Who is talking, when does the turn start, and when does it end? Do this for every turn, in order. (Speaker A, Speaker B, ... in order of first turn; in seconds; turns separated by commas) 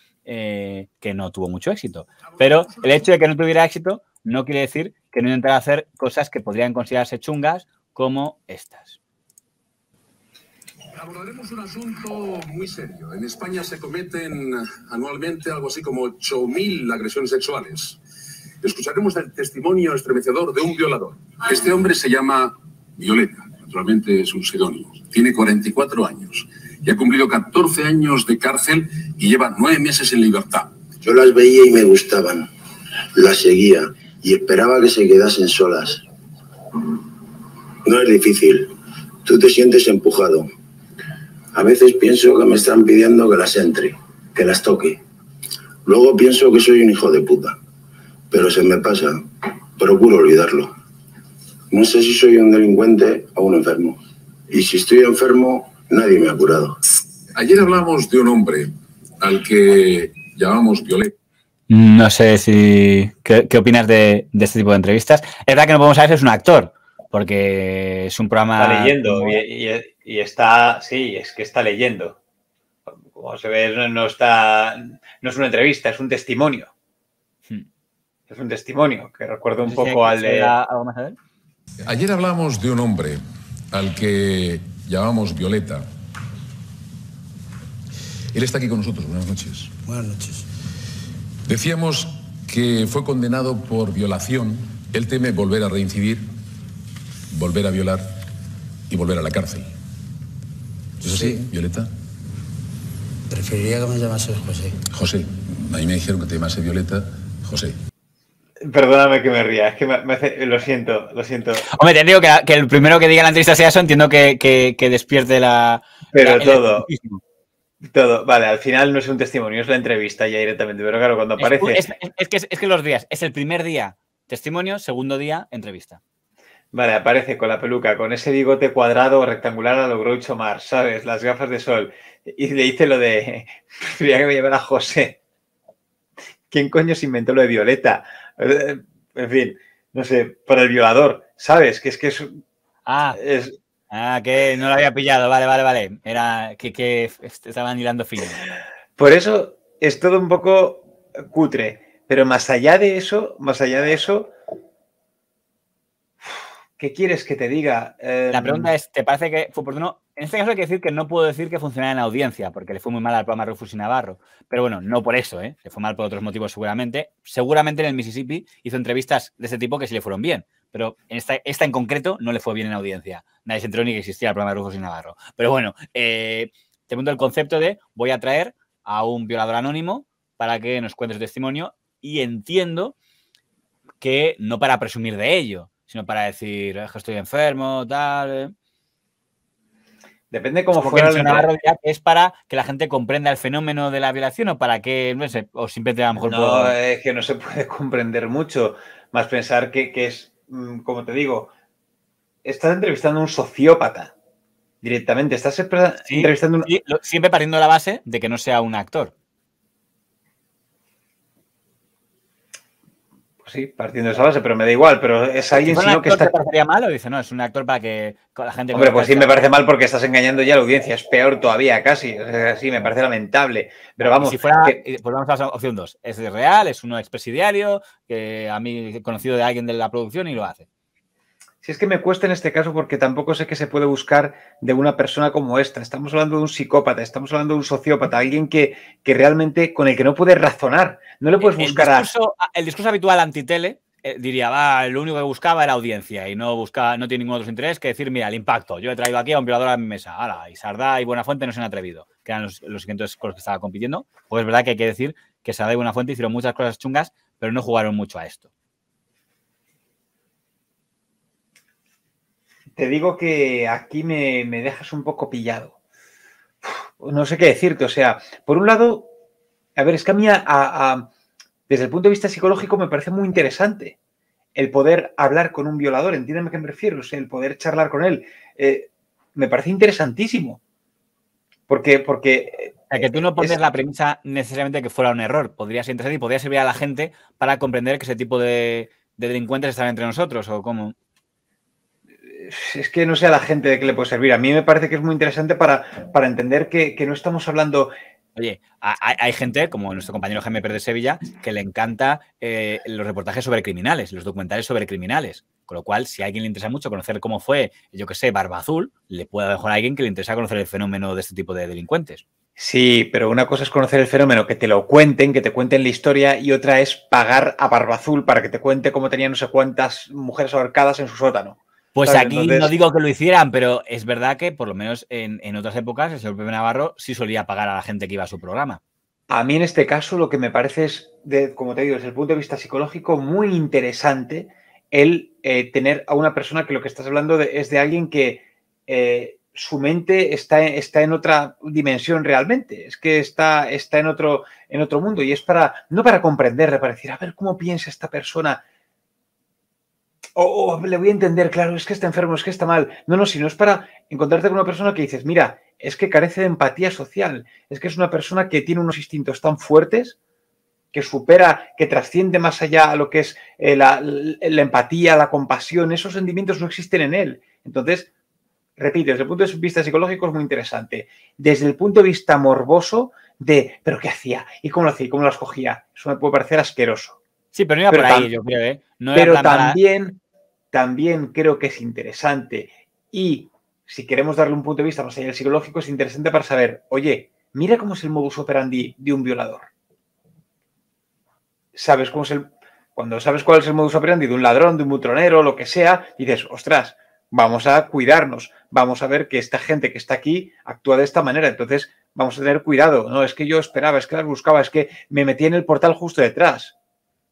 Speaker A: 0.2-9.0, Speaker B: 11.7-12.1, Speaker B: 12.7-17.9, Speaker B: 18.6-30.7, Speaker C: 31.0-32.5, Speaker C: 33.1-36.0, Speaker C: 37.8-38.7, Speaker C: 39.2-40.5, Speaker C: 41.5-45.0, Speaker C: 45.8-47.6, Speaker C: 48.3-49.2, Speaker C: 49.8-50.7, Speaker C: 51.7-54.0, Speaker C: 54.5-56.7, Speaker B: 57.3-58.7, Speaker B: 59.2-61.1, Speaker A: 61.7-69.4, Speaker D: 68.6-72.2, Speaker D: 72.9-76.7, Speaker D: 78.3-80.5, Speaker A: 79.6-81.2, Speaker B: 81.8-83.2, Speaker B: 83.7-85.8, Speaker B: 88.3-89.7, Speaker E: 89.8-90.4, Speaker B: 91.5-96.2, Speaker B: 97.3-98.0, Speaker B: 98.9-99.7, Speaker E: 101.0-101.5, Speaker B: 101.0-101.9, Speaker E: 103.3-104.8, Speaker B: 104.9-107.7, Speaker D: 108.6-111.6, Speaker A: 111.7-117.2, Speaker D: 116.1-116.9, Speaker D: 117.8-121.8, Speaker A: 121.4-126.0, Speaker D: 126.7-135.2, Speaker D: 136.5-142.3, Speaker A: 142.8-143.2, Speaker D: 143.2-143.6, Speaker A: 143.9-148.4, Speaker D: 149.0-154.3, Speaker D: 156.2-158.7, Speaker A: 158.3-182.9, Speaker A: 184.0-188.5, Speaker D: 190.3-191.5, Speaker A: 190.7-196.7, Speaker D: 196.1-201.5, Speaker D: 202.4-204.1, Speaker D: 204.8-206.7, Speaker A: 206.0-209.1, Speaker D: 213.4-216.3, Speaker A: 215.5-219.4, Speaker D: 218.7-224.8, Speaker A: 224.0-230.7, Speaker D: 231.6-242.1, Speaker A: 241.4-258.5, Speaker D: 262.8-265.7, Speaker D: 266.6-269.1, Speaker D: 269.8-271.1, Speaker D: 271.7-274.0, Speaker D: 274.5-280.6, Speaker D: 281.7-283.8, Speaker A: 282.9-290.9, Speaker D: 292.3-297.9, Speaker A: 298.4-312.2, Speaker D: 312.6-322.7, Speaker A: 321.9-328.8, Speaker D: 329.3-348.6, Speaker D: 350.4-360.1, Speaker D: 360.9-368.1, Speaker D: 368.8-377.2, Speaker A: 377.5-379.8, Speaker D: 377.9-378.3, Speaker D: 379.1-380.2, Speaker D: 380.7-389.7, Speaker D: 391.7-406.7